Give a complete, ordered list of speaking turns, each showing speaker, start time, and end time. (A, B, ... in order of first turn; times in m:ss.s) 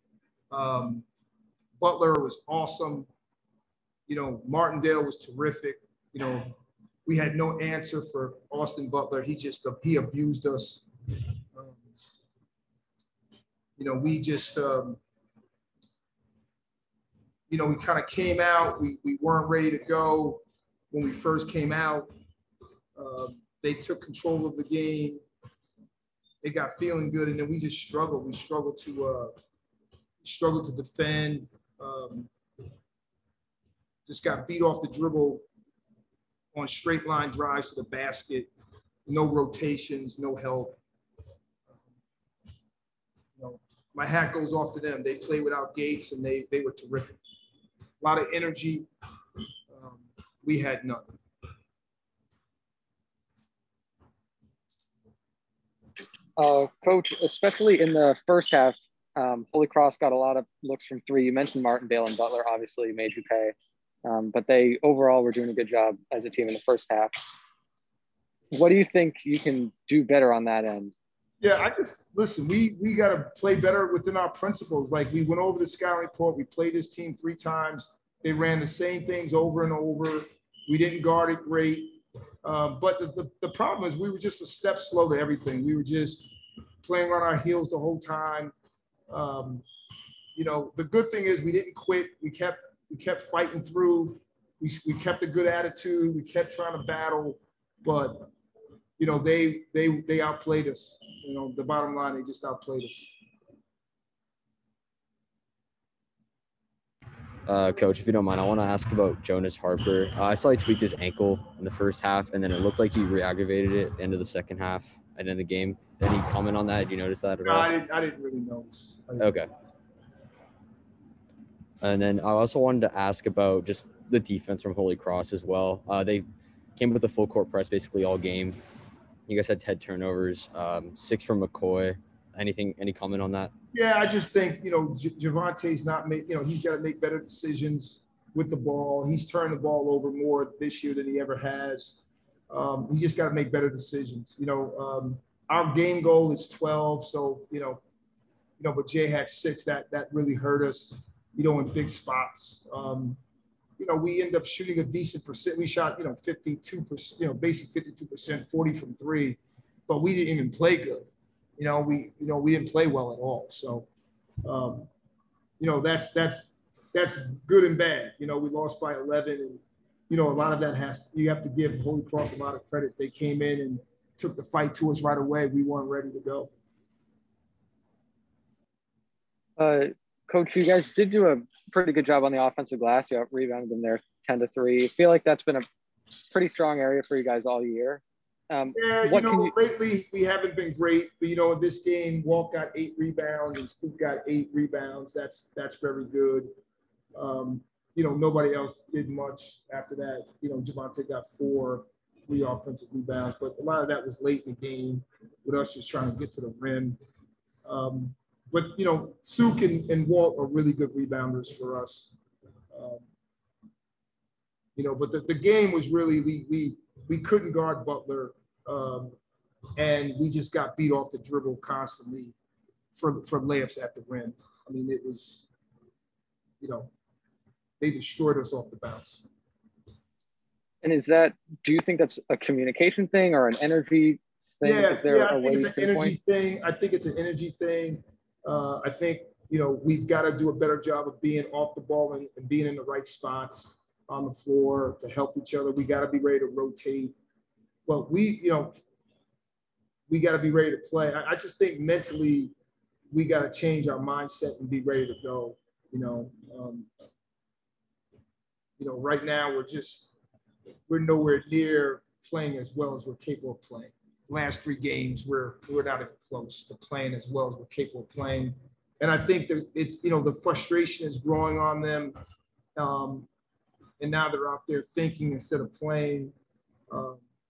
0:00.5-0:01.0 A
0:01.8-0:03.1 A
0:04.1-0:10.9 A
0:11.5-0:11.9 A
0:13.8-0:15.0 A
0:17.5-0:22.1 A
0:23.0-0:25.2 A
0:26.4-0:29.3 A
0:30.2-0:32.3 A
0:34.0-0:35.4 A
0:36.5-0:38.5 A
0:39.0-0:40.8 A
0:43.4-0:47.2 A
0:48.0-0:48.9 A
0:49.7-0:51.2 A
0:56.4-1:03.5 B
1:04.0-1:07.2 B
1:08.5-1:10.9 B
1:11.4-1:26.3 A
1:26.8-1:28.5 A
1:29.1-1:29.6 A
1:30.3-1:38.3 A
1:39.0-1:43.1 A
1:47.4-1:57.7 C
1:57.4-1:59.3 A
1:59.2-1:59.5 C
2:01.8-2:08.6 C
2:09.3-2:13.5 C
2:13.7-2:27.8 A
2:28.6-2:33.2 A
2:33.8-2:43.9 A
2:44.4-2:44.9 A
2:45.6-2:56.5 A
2:59.6-3:05.6 B
3:06.3-3:09.5 B
3:08.7-3:16.5 A
3:17.1-3:27.0 A
3:27.6-3:32.1 A
3:32.7-3:33.0 A
3:34.8-3:39.2 A
3:39.8-3:42.4 A
3:42.9-3:45.5 A
3:46.6-3:46.9 A
3:47.8-3:49.2 A
3:50.8-3:56.2 B
3:54.6-4:07.1 A
4:07.8-4:08.7 A
4:10.1-4:12.5 A
4:13.1-4:16.9 A
4:18.8-4:20.1 A
4:20.9-4:32.2 A
4:32.8-4:33.3 A
4:34.0-4:36.3 A
4:36.9-4:37.2 A